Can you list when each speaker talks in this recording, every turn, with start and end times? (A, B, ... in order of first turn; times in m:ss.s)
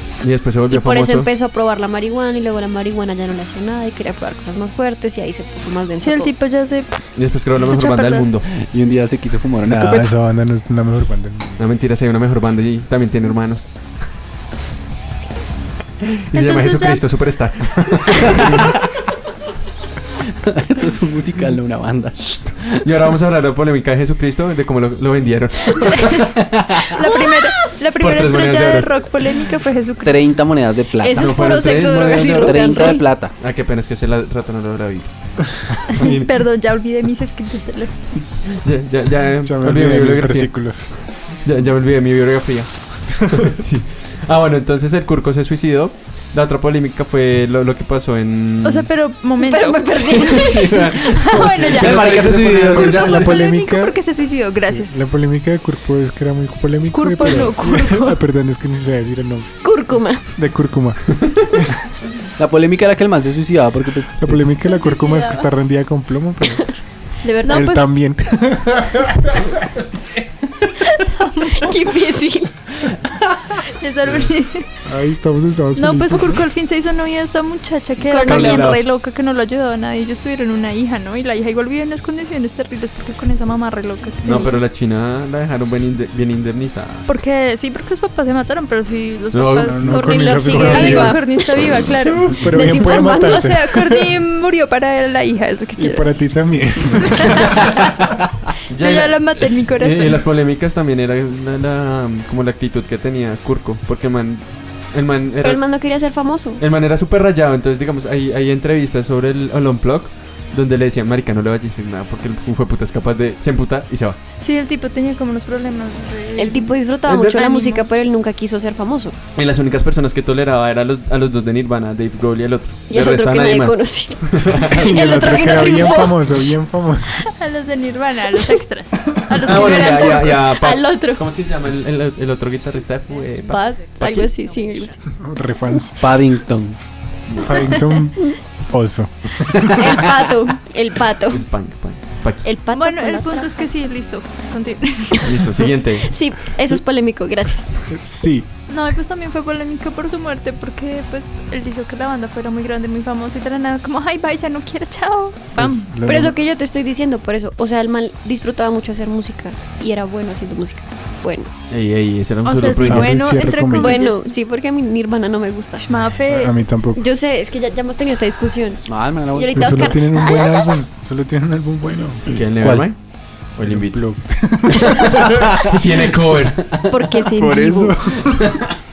0:00.2-0:01.3 A
0:00.7-0:06.3 B
0:06.0-0:06.9 C
0:07.2-0:08.5 A
0:07.6-0:08.3 C
0:08.5-0:10.1 D
0:09.6-0:11.5 E
0:11.6-0:13.7 A
0:16.0-0:18.8 A
0:16.3-0:17.0 C
0:18.4-0:19.0 D
0:20.3-0:22.8 D
0:22.2-0:26.0 A
0:25.9-0:30.4 C
0:26.2-0:26.9 D
0:27.0-0:27.5 B
0:28.0-0:28.9 A
0:30.0-0:33.3 D
0:31.0-0:33.0 B
0:31.1-0:35.1 A
0:35.7-0:36.3 A
0:35.9-0:38.0 C
0:38.4-0:48.9 A
0:39.4-0:40.9 E
0:48.6-0:55.0 C
0:49.4-0:50.9 B
0:50.1-0:53.3 A
0:51.6-0:53.3 D
0:52.9-0:54.0 E
0:54.7-0:59.5 E
0:56.9-0:58.2 C
0:59.6-1:00.2 B
1:00.3-1:01.7 E
1:01.2-1:01.5 A
1:02.4-1:04.4 D
1:04.2-1:06.8 E
1:04.6-1:05.5 C
1:07.2-1:07.6 B
1:07.4-1:07.9 C
1:07.4-1:09.8 E
1:10.8-1:12.5 B
1:11.1-1:11.7 C
1:13.6-1:14.7 C
1:14.8-1:16.4 E
1:15.7-1:24.6 C
1:18.0-1:18.7 B
1:18.2-1:18.8 A
1:24.2-1:27.0 A
1:27.1-1:36.3 C
1:29.3-1:31.2 A
1:29.6-1:31.2 E
1:29.8-1:31.7 B
1:32.0-1:32.4 A
1:32.3-1:34.2 E
1:32.5-1:33.4 B
1:35.8-1:37.6 E
1:37.0-1:37.8 C
1:38.7-1:45.6 A
1:38.8-1:40.2 C
1:45.4-1:46.6 B
1:46.6-1:54.2 A
1:54.4-1:56.8 C
1:56.4-1:59.2 B
1:57.0-1:57.8 A
1:59.4-2:04.8 A
2:02.9-2:06.4 B
2:04.7-2:07.2 E
2:07.4-2:10.5 C
2:08.3-2:08.6 B
2:09.4-2:14.3 A
2:09.6-2:11.2 B
2:13.4-2:15.0 B
2:15.1-2:16.2 E
2:16.0-2:16.8 D
2:17.3-2:20.0 E
2:17.5-2:18.4 B
2:19.7-2:21.4 B
2:21.3-2:22.4 A
2:22.4-2:23.7 B
2:22.7-2:25.6 C
2:25.2-2:26.1 A
2:26.0-2:27.8 B
2:27.9-2:28.5 E
2:28.7-2:35.9 C
2:35.5-2:36.4 E
2:36.0-2:41.5 B
2:41.7-2:43.2 A
2:42.4-2:44.2 C
2:42.8-2:44.1 E
2:43.8-2:45.9 B
2:45.8-2:46.5 C
2:46.2-2:47.0 E
2:46.9-2:50.8 B
2:48.8-2:49.9 D
2:49.5-2:52.5 E
2:52.2-2:53.0 A
2:52.6-2:52.9 D
2:53.5-2:54.0 A
2:53.6-2:55.6 E
2:54.8-2:55.0 B
2:55.3-2:55.7 D
2:55.5-2:56.6 A
2:56.9-2:58.0 B
2:57.2-2:58.6 E